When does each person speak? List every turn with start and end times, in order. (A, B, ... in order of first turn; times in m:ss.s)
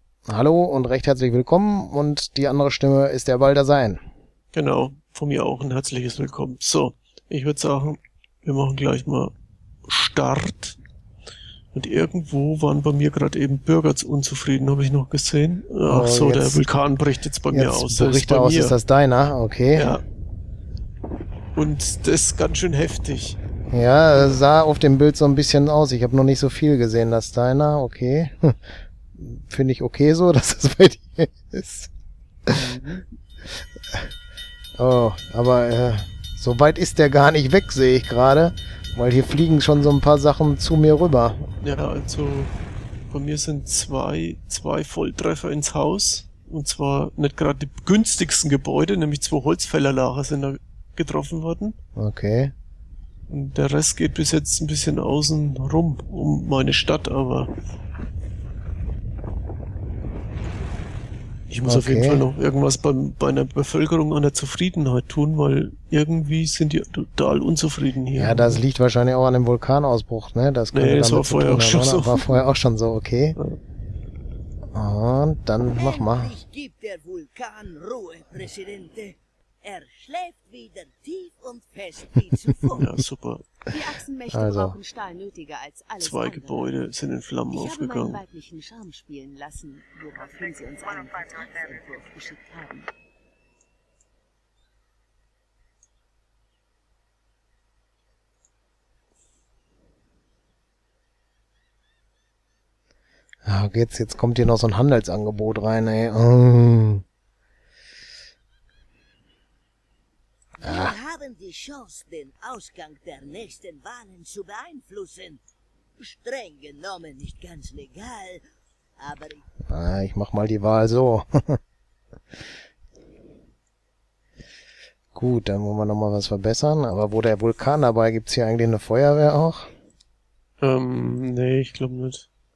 0:00.3-0:04.0 A
0:04.5-0:09.3 B
0:09.9-0:10.8 B
0:11.7-0:18.8 B
0:15.9-0:16.6 A
0:17.5-0:20.0 A
0:19.7-0:20.0 B
0:21.6-0:23.4 B
0:23.7-0:31.9 A
0:32.5-0:33.1 B
0:34.8-0:41.5 A
0:41.6-0:42.5 B
0:43.1-0:51.8 B
0:52.0-0:52.5 A
0:53.3-0:57.5 B
1:01.5-1:08.6 B
1:01.6-1:02.3 A
1:08.1-1:13.4 A
1:10.7-1:12.4 B
1:14.7-1:16.4 A
1:15.8-1:22.9 C
1:22.8-1:23.5 B
1:23.7-1:26.8 D
1:23.8-1:24.8 A
1:26.0-1:28.2 B
1:27.5-1:32.9 D
1:43.4-1:47.0 A
1:50.6-1:55.4 C
1:50.6-1:51.0 A
1:56.0-1:58.4 C
1:59.0-1:59.4 C
1:59.7-2:01.6 A
2:05.1-2:09.7 A
2:10.6-2:12.3 B